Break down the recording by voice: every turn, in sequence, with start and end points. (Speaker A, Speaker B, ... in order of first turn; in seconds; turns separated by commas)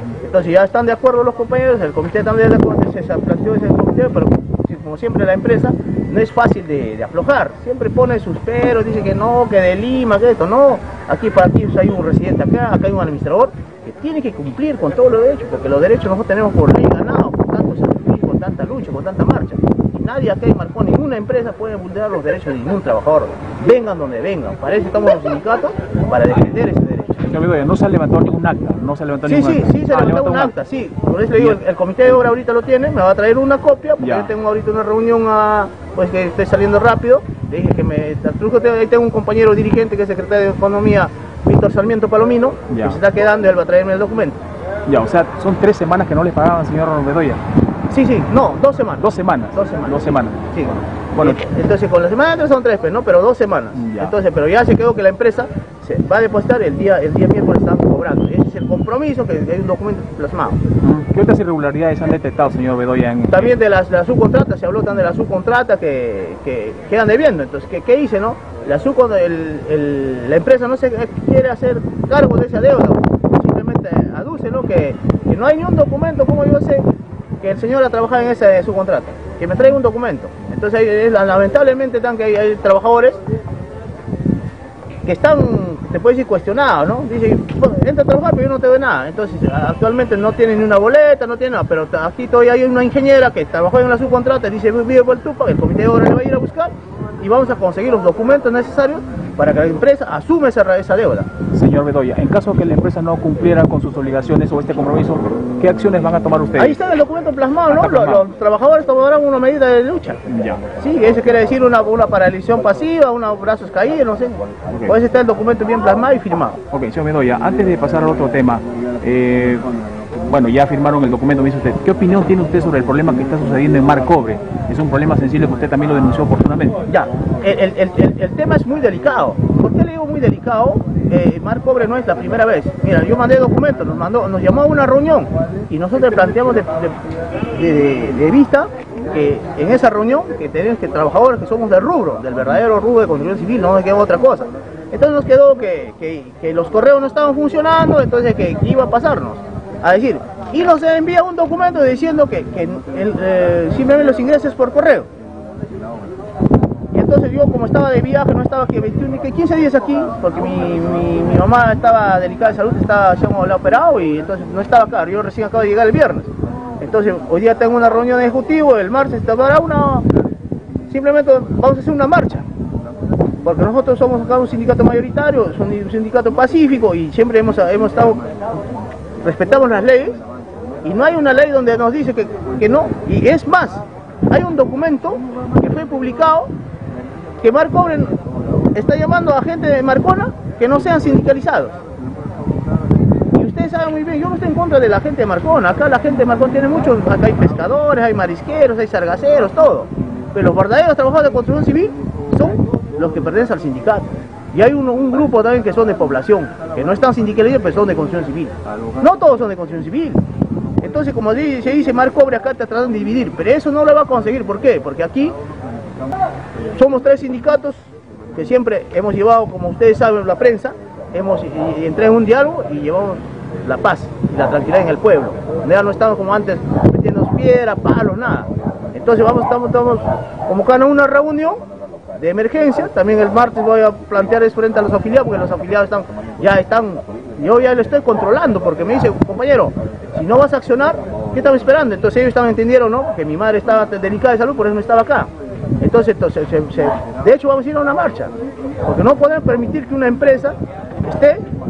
Speaker A: 0.2-27.2, Speaker B: 27.3-30.5, Speaker A: 29.3-44.4, Speaker B: 34.0-34.3, Speaker B: 42.7-43.0, Speaker B: 44.9-47.4, Speaker A: 47.9-60.6, Speaker B: 49.0-51.4, Speaker B: 53.8-54.1, Speaker B: 60.8-63.5, Speaker A: 63.3-76.9, Speaker A: 77.4-83.2, Speaker A: 85.0-101.3, Speaker B: 101.5-106.8, Speaker A: 106.6-110.2, Speaker B: 107.7-108.3, Speaker B: 110.3-110.6, Speaker A: 110.8-116.6, Speaker B: 114.7-115.0, Speaker B: 116.7-119.7, Speaker B: 120.3-126.8, Speaker A: 126.9-137.0, Speaker A: 137.5-155.1, Speaker A: 156.9-170.1, Speaker A: 170.9-172.5, Speaker A: 173.4-178.3, Speaker A: 179.2-180.2, Speaker A: 180.8-186.5, Speaker A: 187.4-188.2, Speaker A: 188.7-191.8, Speaker A: 193.3-210.2, Speaker A: 210.8-215.3, Speaker A: 216.7-231.6, Speaker A: 232.2-245.3, Speaker A: 245.8-248.3, Speaker A: 248.8-251.5